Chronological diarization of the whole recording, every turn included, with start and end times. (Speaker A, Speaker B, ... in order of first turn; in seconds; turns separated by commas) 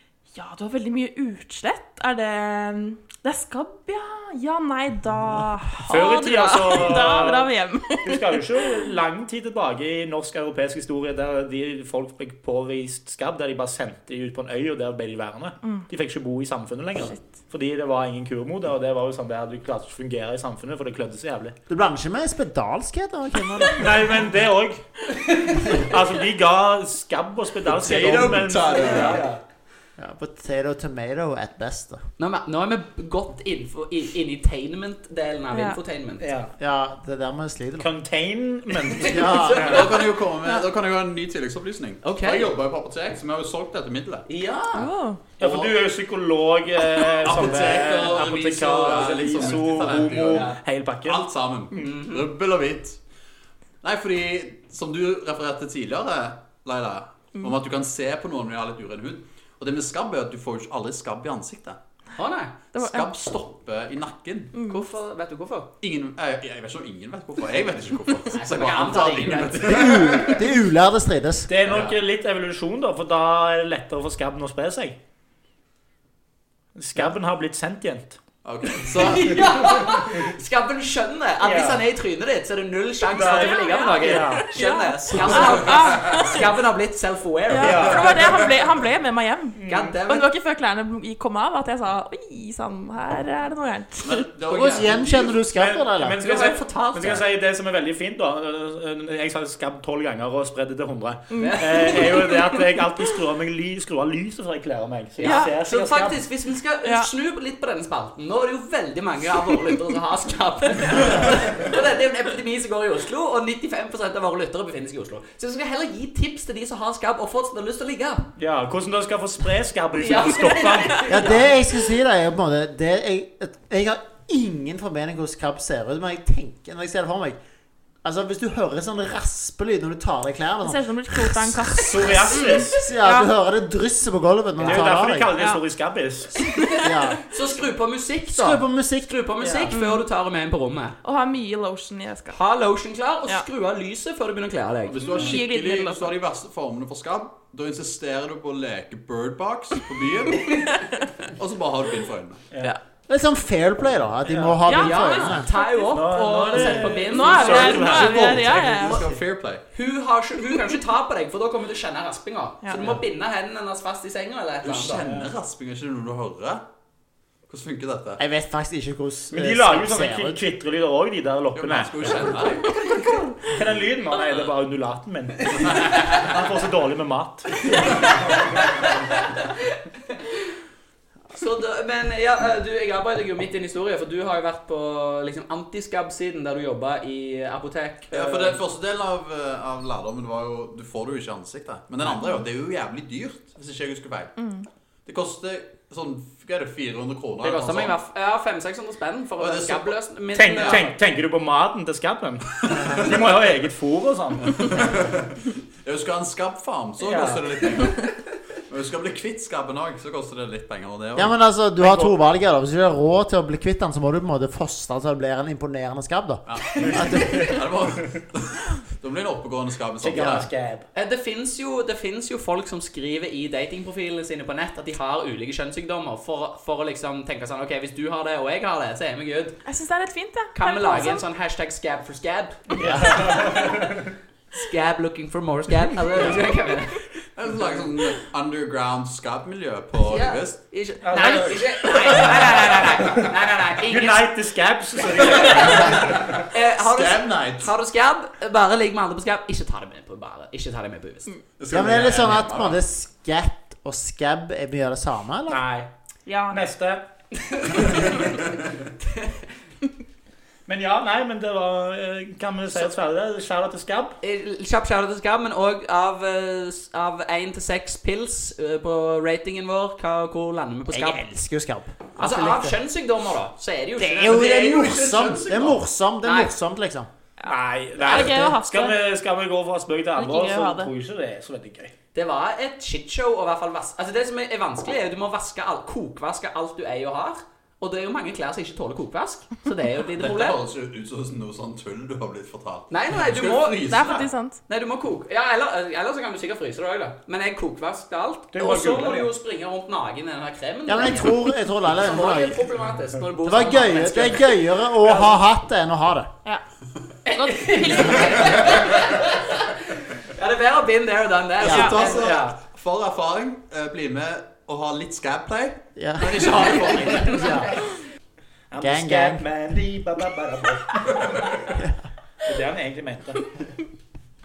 Speaker A: 0.3-8.9, Speaker B: 5.9-7.5, Speaker B: 8.0-21.6, Speaker C: 21.7-24.2, Speaker B: 23.8-29.4, Speaker D: 27.6-29.3, Speaker C: 30.0-32.0, Speaker E: 32.2-36.2, Speaker A: 35.5-35.8, Speaker B: 36.2-36.5, Speaker C: 36.6-37.9, Speaker B: 37.8-39.8, Speaker C: 39.0-39.9, Speaker E: 39.0-40.0, Speaker D: 39.5-44.2, Speaker E: 42.0-42.5, Speaker E: 44.3-44.9, Speaker A: 44.7-45.2, Speaker B: 45.4-51.3, Speaker D: 45.4-45.8, Speaker D: 47.0-53.0, Speaker E: 50.3-50.5, Speaker E: 51.8-52.2, Speaker D: 53.8-61.8, Speaker E: 62.1-62.5, Speaker D: 62.7-64.5, Speaker A: 62.7-63.1, Speaker A: 64.5-64.8, Speaker E: 64.6-65.7, Speaker D: 65.8-70.5, Speaker E: 68.3-69.9, Speaker C: 69.6-71.6, Speaker B: 71.5-75.0, Speaker D: 71.7-72.0, Speaker B: 76.7-78.2, Speaker D: 78.4-80.0, Speaker E: 78.8-88.1, Speaker B: 81.4-81.8, Speaker B: 83.1-84.5, Speaker A: 83.1-86.5, Speaker D: 85.4-86.2, Speaker A: 87.5-94.2, Speaker B: 87.5-88.3, Speaker D: 87.8-88.5, Speaker B: 89.5-89.9, Speaker E: 89.7-90.3, Speaker D: 94.0-95.4, Speaker C: 94.5-96.2, Speaker B: 95.4-106.2, Speaker E: 96.2-97.3, Speaker A: 101.3-102.8, Speaker E: 101.3-102.0, Speaker E: 105.2-118.3, Speaker A: 105.2-105.5, Speaker A: 106.8-107.1, Speaker B: 118.4-121.3, Speaker E: 120.0-121.4, Speaker C: 121.1-127.4, Speaker C: 128.0-132.2, Speaker A: 130.6-133.3, Speaker B: 131.8-132.8, Speaker C: 132.7-135.4, Speaker B: 134.6-136.3, Speaker A: 135.3-135.6, Speaker E: 136.3-141.0, Speaker A: 136.4-137.0, Speaker C: 136.8-137.2, Speaker C: 138.3-139.1, Speaker B: 139.4-139.7, Speaker A: 139.7-140.0, Speaker A: 141.0-142.4, Speaker E: 142.3-145.0, Speaker D: 144.8-152.4, Speaker A: 145.0-146.1, Speaker C: 153.1-155.5, Speaker B: 154.2-154.6, Speaker A: 154.6-155.9, Speaker E: 154.7-158.2, Speaker B: 155.8-158.9, Speaker A: 156.5-159.0, Speaker D: 158.2-159.6, Speaker E: 159.7-165.1, Speaker D: 164.6-166.7, Speaker D: 167.5-168.2, Speaker C: 168.2-170.4, Speaker B: 169.3-172.3, Speaker D: 171.5-172.8, Speaker B: 173.4-177.7, Speaker D: 175.6-176.3, Speaker E: 178.5-179.8, Speaker E: 181.3-188.6, Speaker D: 188.1-194.3, Speaker A: 194.4-194.7, Speaker D: 195.1-198.0, Speaker E: 197.4-200.9, Speaker D: 199.4-200.0, Speaker B: 200.3-204.7, Speaker D: 200.5-200.8, Speaker D: 202.6-203.3, Speaker D: 204.6-208.1, Speaker B: 207.0-207.5, Speaker D: 208.7-211.3, Speaker C: 211.2-217.5, Speaker B: 211.8-212.1, Speaker D: 216.4-220.5, Speaker E: 216.8-217.2, Speaker B: 220.0-220.9, Speaker E: 220.9-229.6, Speaker A: 229.7-231.2, Speaker E: 230.5-233.8, Speaker B: 232.8-233.8, Speaker E: 234.5-237.0, Speaker D: 237.3-240.6, Speaker E: 240.0-244.3, Speaker B: 241.0-243.3, Speaker B: 243.8-246.4, Speaker E: 245.3-251.3, Speaker D: 245.3-247.7, Speaker D: 251.6-252.8, Speaker C: 251.7-255.6, Speaker B: 255.5-255.9, Speaker A: 256.2-256.6, Speaker B: 256.5-257.0, Speaker E: 257.4-258.1, Speaker B: 260.6-264.2, Speaker E: 264.2-271.2, Speaker C: 270.9-272.8, Speaker E: 272.2-274.6, Speaker C: 274.0-277.1, Speaker D: 274.2-275.8, Speaker E: 276.2-276.5, Speaker A: 277.4-279.0, Speaker B: 277.4-281.9, Speaker C: 278.0-278.5, Speaker A: 280.1-280.9, Speaker E: 282.1-290.6, Speaker D: 290.2-294.3, Speaker E: 292.9-294.0, Speaker A: 293.9-294.6, Speaker E: 294.7-304.6, Speaker B: 298.5-299.3, Speaker C: 300.9-302.7, Speaker C: 303.4-306.3, Speaker B: 305.0-305.4, Speaker E: 307.2-312.2, Speaker A: 307.3-308.8, Speaker D: 311.6-317.6, Speaker A: 311.7-312.1, Speaker B: 312.1-312.6, Speaker C: 316.0-317.8, Speaker E: 316.2-317.5, Speaker B: 318.7-321.1, Speaker C: 318.8-319.4, Speaker B: 322.4-323.4